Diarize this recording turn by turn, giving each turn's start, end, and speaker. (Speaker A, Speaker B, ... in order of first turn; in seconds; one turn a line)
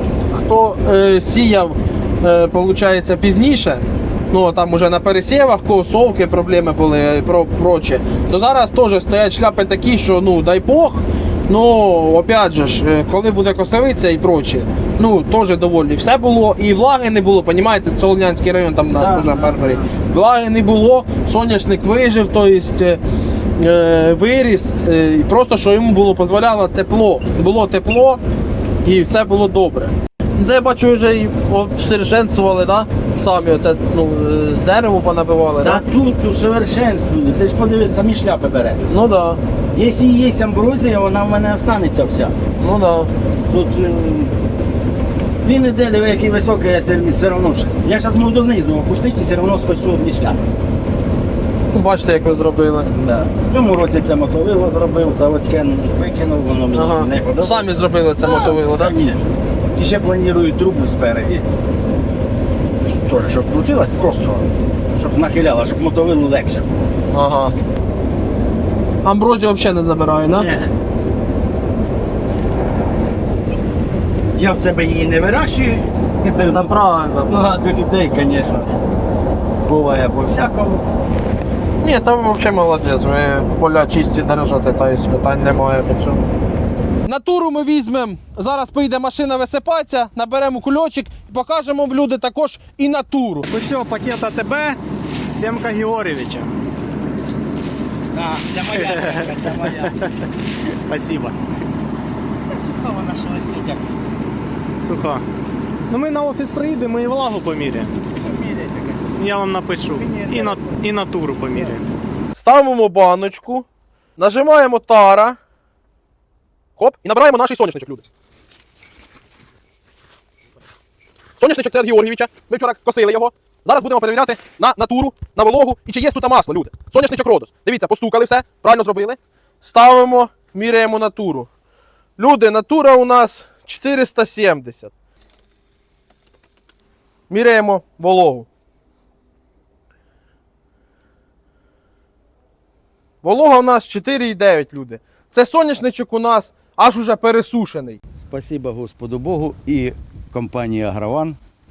Speaker A: 0.3-23.0
Speaker B: 19.0-19.9
Speaker A: 23.6-28.2
Speaker A: 28.8-35.8
Speaker B: 35.6-38.8
Speaker A: 38.9-39.4
Speaker B: 39.7-42.3
Speaker A: 42.6-43.1
Speaker B: 43.5-44.3
Speaker B: 45.4-50.4
Speaker A: 51.7-52.9
Speaker B: 52.9-59.2
Speaker A: 56.7-59.0
Speaker B: 59.8-61.4
Speaker B: 62.8-66.7
Speaker A: 67.1-67.5
Speaker A: 69.0-70.5
Speaker B: 70.3-70.7
Speaker B: 74.3-78.7
Speaker A: 76.5-77.3
Speaker B: 79.7-80.8
Speaker A: 81.8-86.2
Speaker A: 87.0-93.5
Speaker C: 93.5-94.8
Speaker C: 95.3-96.5
Speaker B: 98.1-100.0
Speaker C: 98.7-100.1
Speaker C: 100.9-101.3
Speaker B: 102.5-103.9
Speaker C: 104.8-105.2
Speaker C: 105.9-107.9
Speaker B: 108.2-109.2
Speaker C: 109.1-111.8
Speaker B: 110.0-110.8
Speaker A: 112.4-113.7
Speaker A: 114.2-115.4
Speaker A: 116.8-118.1
Speaker A: 121.4-131.5
Speaker A: 132.2-134.9
Speaker A: 137.3-138.5
Speaker A: 143.2-148.0
Speaker B: 148.2-151.4